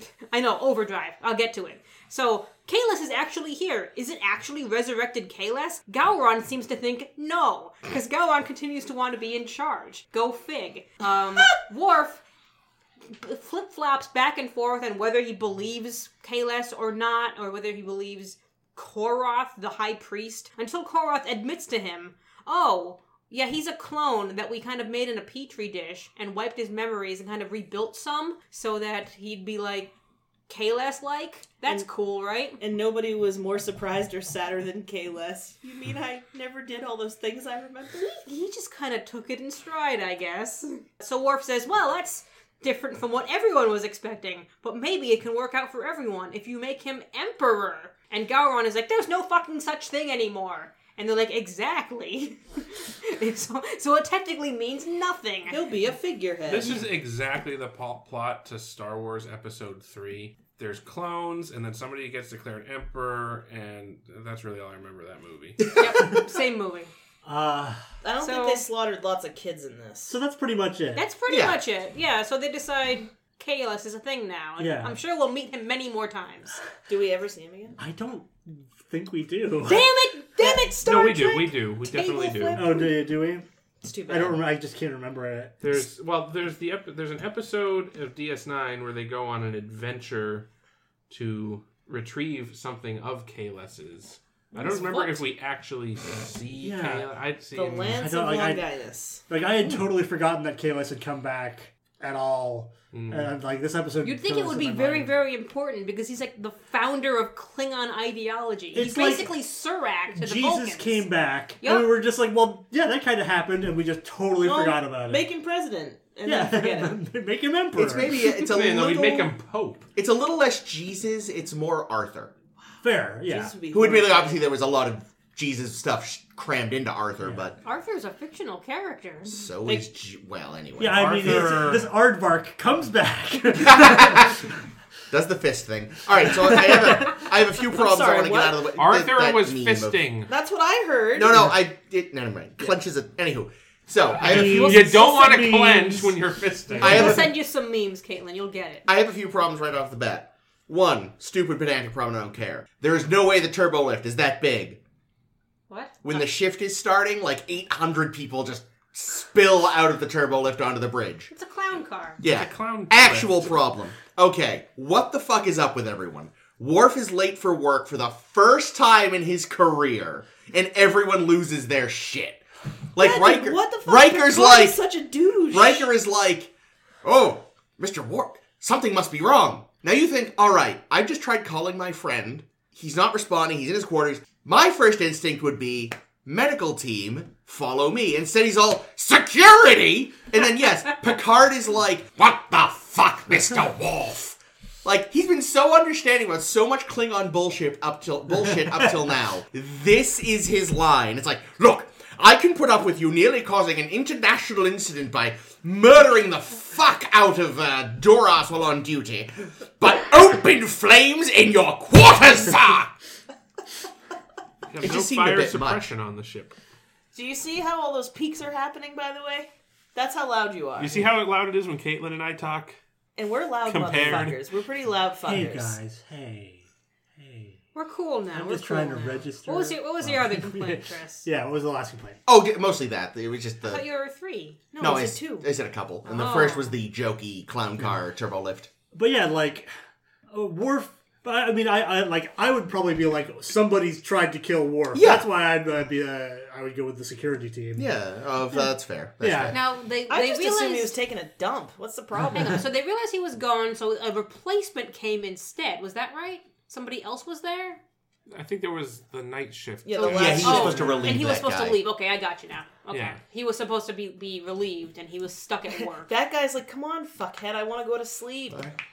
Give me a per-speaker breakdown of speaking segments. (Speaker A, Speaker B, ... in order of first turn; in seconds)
Speaker A: 0.3-12.2, 13.1-29.9, 30.5-32.6, 38.0-55.6, 65.7-66.9, 68.2-68.7, 71.0-76.6, 79.6-82.9, 94.5-95.3, 104.0-111.0, 111.6-111.9, 127.6-129.4, 144.5-145.1, 146.8-148.8, 155.7-156.0, 161.3-162.2, 227.7-231.3, 233.6-234.6, 236.0-236.7, 249.5-251.0, 252.3-257.8, 260.0-266.1
Speaker B: 32.6-38.1, 55.5-56.8, 68.0-70.1, 76.9-77.8, 80.3-81.5, 83.8-84.4, 97.5-99.2, 114.4-117.0, 123.2-124.4, 137.6-138.7, 140.3-141.4, 173.0-175.9, 217.1-221.1, 223.2-225.8, 234.7-235.5, 250.1-252.6, 259.8-260.9, 266.1-268.7
Speaker C: 56.5-65.6, 80.8-82.8, 85.6-90.5, 91.1-98.0, 102.9-103.3, 118.3-119.9, 131.0-131.8, 138.8-140.3, 144.2-147.2, 162.2-163.6, 214.7-216.6, 220.8-222.8, 223.6-224.3, 258.3-261.1, 262.9-263.2
Speaker D: 67.2-67.9, 70.1-71.0, 74.6-75.0, 77.8-79.8, 82.5-83.5, 84.1-85.8, 96.6-97.1, 97.8-98.7, 99.3-105.1, 108.7-109.3, 110.1-115.2, 116.2-118.3, 122.8-123.6, 130.8-134.3, 136.7-137.0, 144.2-147.3, 224.0-224.4, 225.2-226.6, 227.2-227.6, 228.3-232.2, 238.9-239.7, 240.3-247.9, 249.2-249.6, 260.8-261.1
Speaker E: 71.3-71.6, 117.7-119.3, 119.9-122.3, 123.7-127.6, 129.3-131.8, 133.6-134.5, 135.1-140.0, 141.1-144.7, 146.8-147.3, 148.9-154.8, 156.0-161.3, 162.2-174.8, 175.5-176.5, 177.0-212.9, 214.8-215.9, 232.3-233.8, 234.8-238.7, 244.9-245.3, 247.8-249.6, 260.0-261.8, 268.5-268.8